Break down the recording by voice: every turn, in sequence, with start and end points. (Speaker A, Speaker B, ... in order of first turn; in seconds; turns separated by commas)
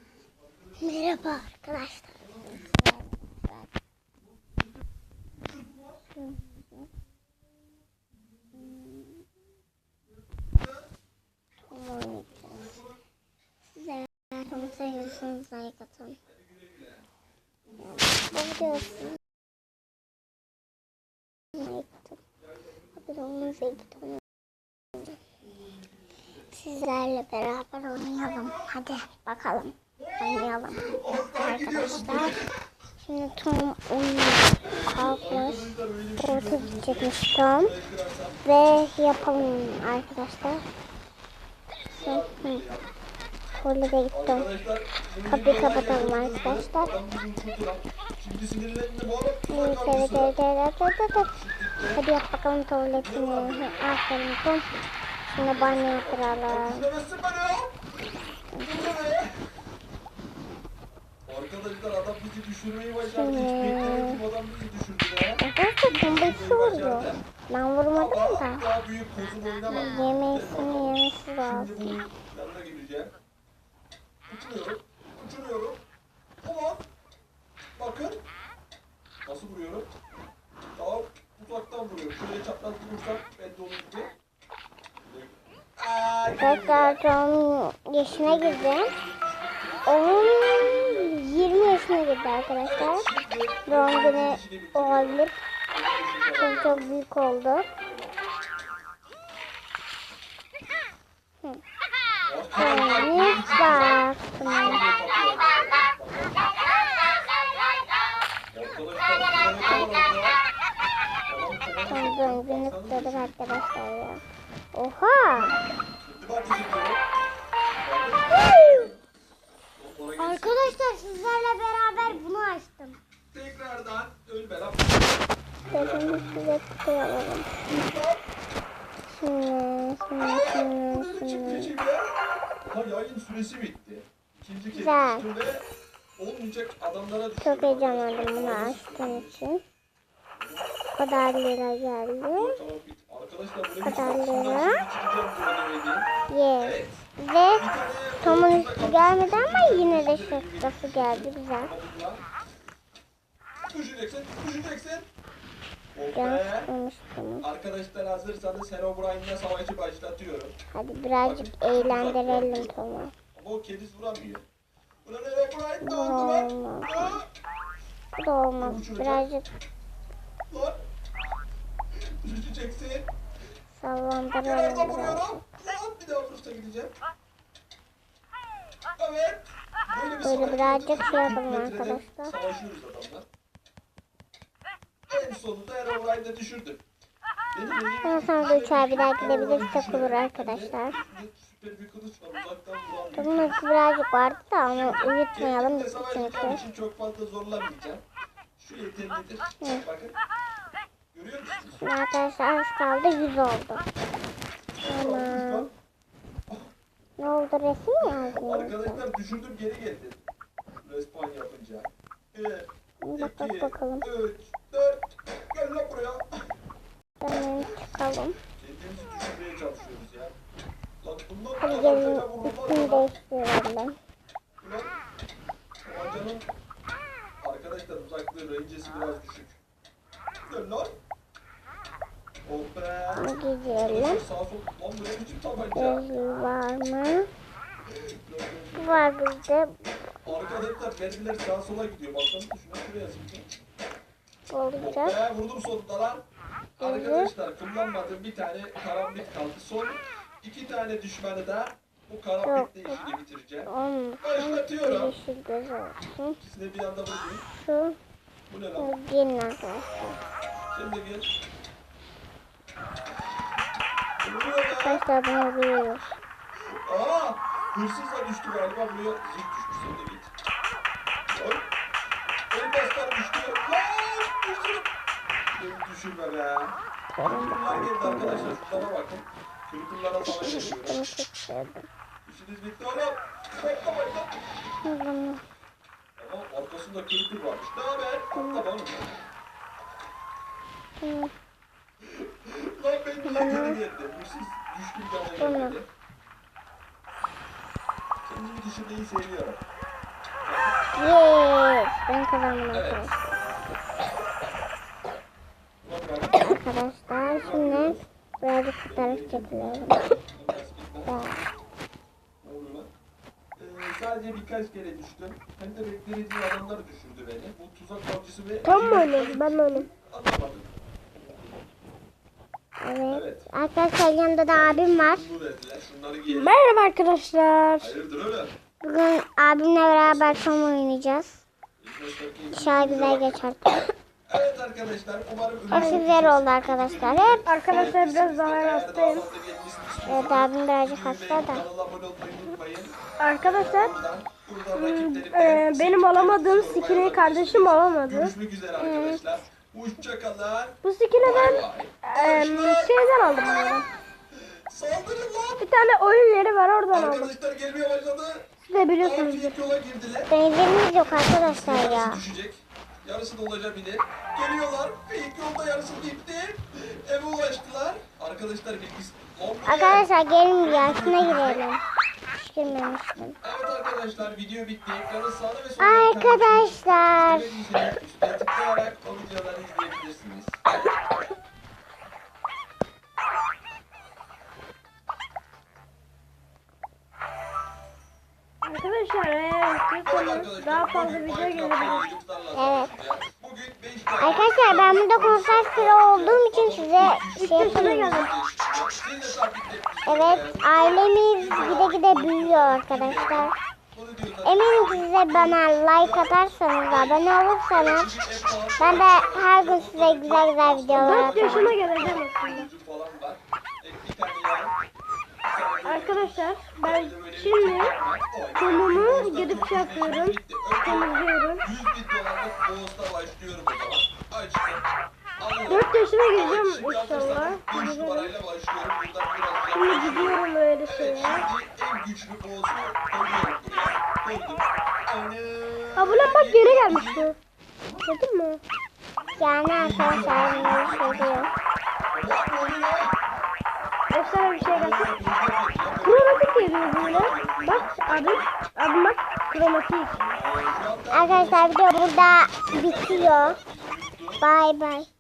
Speaker A: 0.5-1.5, Speaker B: 0.8-3.7, Speaker A: 2.2-2.8, Speaker A: 5.4-6.0, Speaker B: 6.2-6.8, Speaker B: 11.7-12.8, Speaker A: 12.4-12.9, Speaker B: 13.7-16.2, Speaker A: 16.3-17.0, Speaker A: 17.7-19.1, Speaker B: 17.8-19.2, Speaker B: 21.5-22.2, Speaker A: 22.6-23.4, Speaker B: 23.0-24.2, Speaker A: 25.5-26.5, Speaker B: 26.5-32.4, Speaker A: 28.1-28.7, Speaker A: 30.0-32.5, Speaker B: 33.0-37.7, Speaker A: 34.6-38.5, Speaker B: 38.4-40.6, Speaker A: 41.9-42.9, Speaker B: 42.0-42.6, Speaker B: 43.6-44.5, Speaker A: 44.1-50.4, Speaker B: 45.3-47.0, Speaker B: 49.5-51.3, Speaker A: 51.3-52.0, Speaker B: 51.9-54.7, Speaker A: 52.9-53.9, Speaker B: 55.3-56.9, Speaker A: 55.4-57.9, Speaker B: 58.5-58.9, Speaker A: 58.6-59.5, Speaker A: 61.3-67.2, Speaker B: 63.0-64.2, Speaker B: 65.4-68.7, Speaker A: 67.9-73.1, Speaker B: 69.7-72.0, Speaker A: 74.3-75.8, Speaker A: 76.4-76.9, Speaker A: 77.8-78.2, Speaker A: 79.2-79.9, Speaker A: 80.8-84.1, Speaker A: 85.0-87.0, Speaker B: 86.3-88.9, Speaker A: 88.1-91.9, Speaker B: 89.9-93.1, Speaker A: 92.6-96.9, Speaker B: 93.7-95.4, Speaker B: 96.4-97.7, Speaker A: 97.7-98.2, Speaker A: 102.2-106.5, Speaker B: 102.6-104.8, Speaker A: 108.5-110.4, Speaker A: 111.3-113.6, Speaker B: 111.9-114.2, Speaker B: 114.7-115.6, Speaker A: 116.0-117.0, Speaker A: 117.8-119.0, Speaker A: 119.8-120.8, Speaker B: 120.2-123.0, Speaker A: 123.3-126.6, Speaker B: 125.7-127.5, Speaker A: 127.7-128.2, Speaker B: 129.1-131.7, Speaker A: 130.2-132.1, Speaker A: 132.7-135.7, Speaker B: 134.7-135.3, Speaker A: 136.2-139.3, Speaker B: 137.4-139.6, Speaker A: 140.4-140.7, Speaker B: 140.9-142.6, Speaker A: 142.3-147.1, Speaker B: 143.8-144.8, Speaker B: 146.3-147.7, Speaker A: 147.6-152.2, Speaker B: 148.2-151.7, Speaker A: 153.6-155.1, Speaker A: 155.9-156.7, Speaker B: 156.2-157.5, Speaker A: 157.4-160.6, Speaker B: 160.7-163.1, Speaker A: 161.2-162.8, Speaker A: 163.3-164.4, Speaker A: 165.0-167.3, Speaker B: 165.8-167.2, Speaker B: 168.2-169.5, Speaker A: 168.6-169.3, Speaker A: 170.5-170.8, Speaker A: 172.0-173.1, Speaker B: 173.8-175.4, Speaker A: 174.4-176.9, Speaker A: 179.0-183.3, Speaker B: 180.2-182.3, Speaker A: 185.1-186.8, Speaker A: 187.5-193.6, Speaker B: 188.0-191.0, Speaker B: 193.2-196.6, Speaker A: 194.7-198.0, Speaker A: 198.6-200.2, Speaker A: 201.1-201.9, Speaker B: 201.8-203.8, Speaker A: 204.8-205.7, Speaker B: 204.8-205.7, Speaker B: 207.2-209.0, Speaker A: 208.1-210.2, Speaker A: 210.8-216.5, Speaker B: 213.0-214.1, Speaker B: 217.2-218.4, Speaker A: 218.5-220.4, Speaker A: 221.0-223.1, Speaker B: 221.6-224.0, Speaker A: 224.6-224.9, Speaker A: 225.8-226.5, Speaker A: 227.4-229.6, Speaker A: 230.4-231.0, Speaker A: 232.5-236.1, Speaker B: 233.2-234.2, Speaker B: 235.8-237.3, Speaker A: 237.9-239.1, Speaker B: 238.8-239.8, Speaker A: 240.3-243.5, Speaker B: 244.5-245.2, Speaker A: 244.8-246.2, Speaker A: 246.8-255.2, Speaker B: 246.8-247.3, Speaker B: 252.4-253.0, Speaker B: 253.7-256.4, Speaker A: 256.4-257.4, Speaker B: 257.6-258.0, Speaker A: 258.5-258.9, Speaker B: 258.8-260.2, Speaker A: 260.7-261.3, Speaker A: 264.2-265.0, Speaker B: 264.8-266.1, Speaker A: 266.7-270.3, Speaker A: 271.3-271.7, Speaker A: 272.5-274.9, Speaker A: 275.5-281.1, Speaker B: 277.2-278.9, Speaker B: 280.2-281.9, Speaker A: 282.2-284.4, Speaker B: 284.8-285.4, Speaker A: 286.2-289.2, Speaker B: 288.4-288.6, Speaker B: 291.0-291.3, Speaker A: 292.0-295.9, Speaker B: 293.2-293.8, Speaker B: 295.4-295.8, Speaker A: 298.2-299.6, Speaker A: 300.4-300.8, Speaker B: 301.0-303.1, Speaker A: 302.7-303.2, Speaker A: 305.8-308.1, Speaker B: 306.4-310.2, Speaker A: 308.9-311.5, Speaker B: 311.1-311.4, Speaker A: 312.4-312.9, Speaker A: 313.6-321.7, Speaker C: 318.6-319.9, Speaker B: 322.8-325.3, Speaker A: 323.1-323.5, Speaker A: 324.5-326.6, Speaker C: 326.3-327.9, Speaker A: 327.8-328.6, Speaker B: 328.8-331.4, Speaker A: 329.8-330.7, Speaker A: 331.8-333.5, Speaker B: 332.5-333.9, Speaker A: 334.3-355.7, Speaker B: 335.7-337.5, Speaker C: 335.7-336.1, Speaker C: 337.5-339.3, Speaker B: 340.1-341.7, Speaker C: 343.2-343.9, Speaker C: 344.7-348.3, Speaker B: 348.8-349.2, Speaker C: 350.8-353.9, Speaker C: 355.6-357.3, Speaker A: 356.9-358.5, Speaker C: 358.7-359.5, Speaker A: 359.0-360.4, Speaker B: 360.3-362.2, Speaker A: 360.9-370.1, Speaker B: 369.6-373.4, Speaker A: 370.6-371.7, Speaker A: 373.4-380.6, Speaker B: 375.8-377.8, Speaker C: 388.6-392.0, Speaker A: 390.0-414.8, Speaker B: 392.5-392.9, Speaker B: 394.2-398.2, Speaker C: 397.4-398.3, Speaker B: 400.1-403.5, Speaker B: 404.4-408.2, Speaker B: 408.8-411.7, Speaker C: 410.9-412.7, Speaker A: 415.5-424.9, Speaker C: 415.9-417.9, Speaker C: 418.6-421.6, Speaker A: 425.4-437.3, Speaker C: 425.7-428.3, Speaker C: 429.7-431.5, Speaker C: 436.0-437.4, Speaker C: 438.0-438.6, Speaker A: 439.1-441.5, Speaker B: 439.4-441.5, Speaker A: 442.1-443.2, Speaker C: 444.1-445.1, Speaker A: 444.6-448.6, Speaker C: 446.0-450.1, Speaker A: 450.1-454.4, Speaker B: 451.1-453.6, Speaker B: 454.4-455.1